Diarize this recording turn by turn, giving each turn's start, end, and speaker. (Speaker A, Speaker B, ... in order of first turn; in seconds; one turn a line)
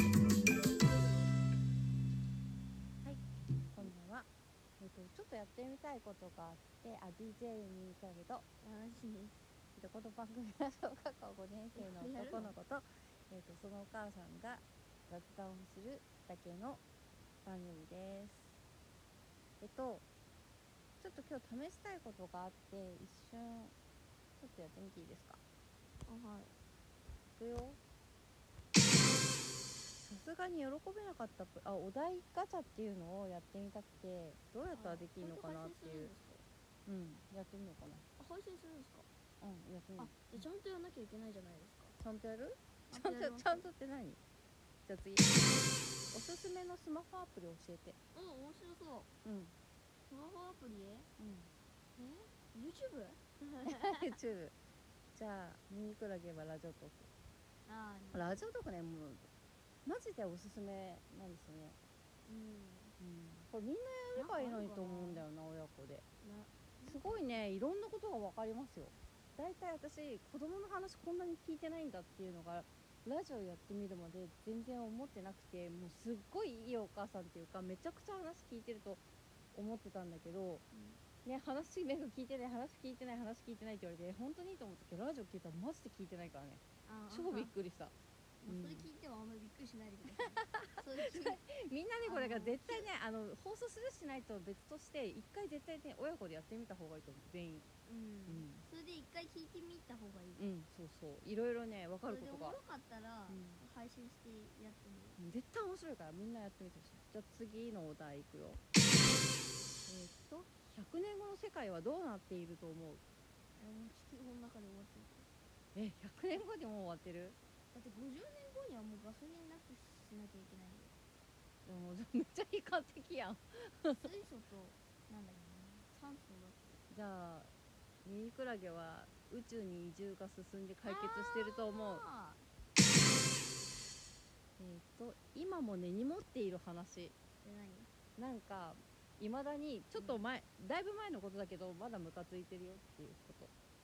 Speaker A: 3.0-8.4
Speaker B: 8.6-9.3
Speaker A: 9.8-16.8
Speaker B: 11.8-12.5
Speaker A: 17.4-18.6
Speaker A: 19.6-20.1
Speaker A: 21.0-23.8
Speaker A: 24.4-25.4
Speaker B: 26.1-26.6
Speaker A: 27.4-27.8
Speaker A: 30.0-36.1
Speaker B: 34.7-36.4
Speaker A: 36.9-38.0
Speaker B: 38.2-39.1
Speaker A: 39.4-40.3
Speaker B: 40.0-42.0
Speaker A: 42.0-44.2
Speaker B: 42.9-43.7
Speaker A: 44.9-45.3
Speaker A: 46.1-48.0
Speaker B: 48.1-49.1
Speaker A: 49.2-49.5
Speaker B: 50.1-51.1
Speaker A: 51.2-51.5
Speaker B: 52.0-54.1
Speaker A: 53.7-54.5
Speaker A: 55.1-57.1
Speaker B: 57.7-58.5
Speaker A: 58.1-59.3
Speaker A: 59.9-61.8
Speaker B: 62.2-63.0
Speaker A: 63.0-66.0
Speaker B: 64.2-65.2
Speaker B: 66.2-67.4
Speaker A: 66.9-80.7
Speaker B: 80.7-81.0
Speaker A: 81.2-87.9
Speaker B: 86.8-87.5
Speaker B: 88.4-91.4
Speaker A: 88.5-88.9
Speaker A: 90.5-97.7
Speaker B: 92.0-92.9
Speaker B: 97.8-100.4
Speaker A: 98.3-98.7
Speaker A: 100.4-102.6
Speaker B: 102.0-105.2
Speaker A: 103.3-103.6
Speaker A: 105.2-108.6
Speaker A: 109.9-113.0
Speaker B: 113.6-115.3
Speaker A: 115.8-117.4
Speaker B: 117.7-120.9
Speaker A: 121.7-124.1
Speaker B: 124.0-126.8
Speaker A: 125.4-125.8
Speaker A: 126.9-127.5
Speaker A: 128.0-132.0
Speaker B: 130.8-132.5
Speaker A: 134.6-137.2
Speaker B: 137.4-137.9
Speaker A: 138.2-143.5
Speaker B: 140.0-140.3